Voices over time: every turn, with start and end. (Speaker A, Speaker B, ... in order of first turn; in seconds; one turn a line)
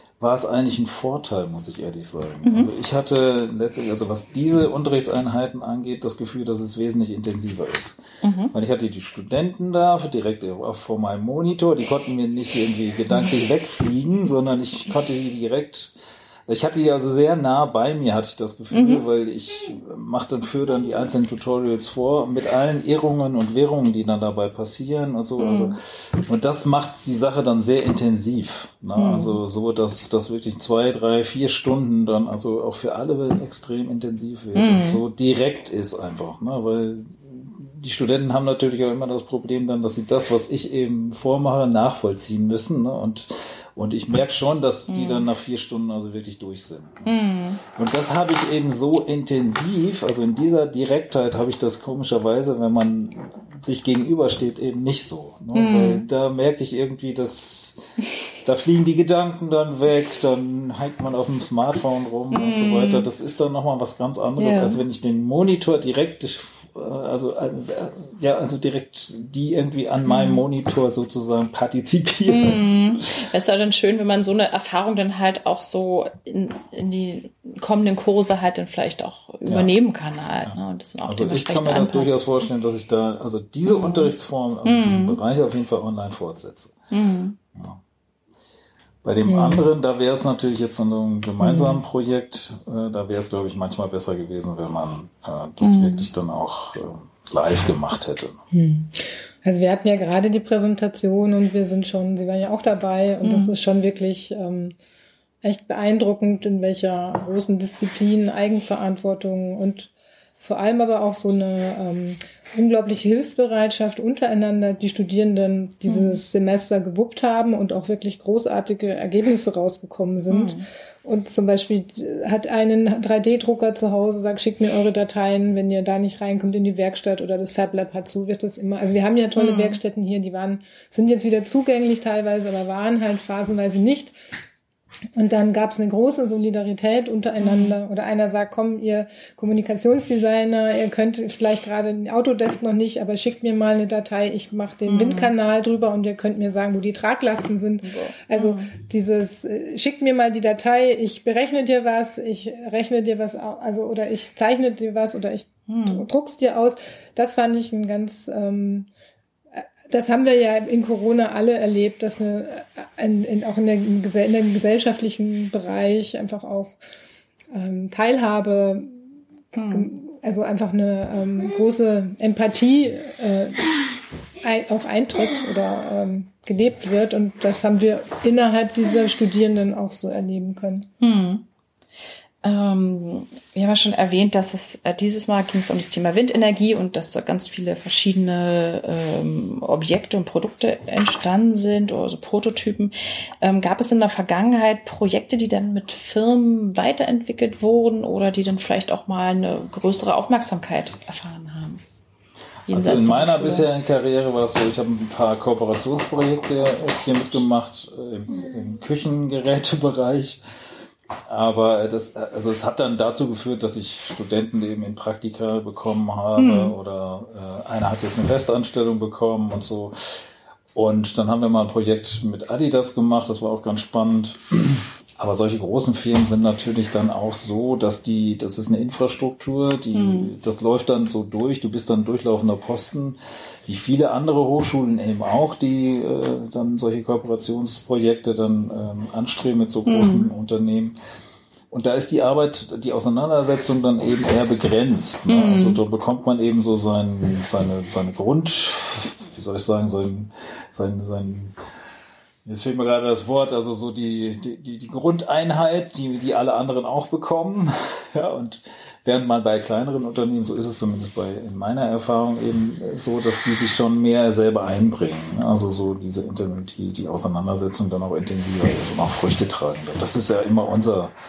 Speaker A: 0.2-15.9
Speaker B: 2.5-2.7
Speaker B: 8.2-8.5
Speaker A: 16.5-47.1
Speaker B: 18.7-19.0
Speaker B: 25.4-25.8
Speaker B: 28.9-29.4
Speaker B: 34.5-35.0
Speaker B: 44.9-45.3
Speaker B: 47.1-47.6
Speaker A: 47.8-57.8
Speaker B: 55.5-56.1
Speaker A: 58.4-72.7
Speaker B: 62.3-63.1
Speaker B: 64.4-64.8
Speaker B: 70.1-70.4
Speaker B: 72.3-82.2
Speaker A: 79.5-79.7
Speaker A: 80.5-86.8
Speaker B: 83.7-84.1
Speaker B: 84.7-85.2
Speaker B: 86.9-87.4
Speaker A: 87.5-87.8
Speaker A: 89.0-98.4
Speaker B: 89.3-89.6
Speaker B: 91.5-91.8
Speaker B: 95.6-96.1
Speaker C: 98.5-104.8
Speaker B: 103.2-103.5
Speaker C: 105.4-134.1
Speaker B: 115.9-116.2
Speaker B: 120.3-120.7
Speaker B: 129.4-129.8
Speaker C: 135.2-158.9
Speaker B: 137.4-137.8
Speaker B: 144.9-145.3
Speaker B: 147.8-148.7
Speaker B: 155.7-156.1
Speaker C: 159.6-166.8
Speaker C: 167.5-169.0
Speaker B: 169.6-169.9
Speaker C: 169.7-173.7
Speaker C: 174.4-180.9
Speaker B: 181.0-181.4
Speaker B: 182.4-201.8
Speaker B: 202.7-203.7
Speaker A: 202.7-210.4
Speaker B: 207.1-207.4
Speaker A: 211.3-219.9
Speaker B: 216.4-216.8
Speaker A: 220.8-241.0
Speaker B: 229.9-230.3
Speaker B: 239.9-240.3
Speaker A: 241.7-251.6
Speaker B: 245.3-245.8
Speaker A: 252.4-271.1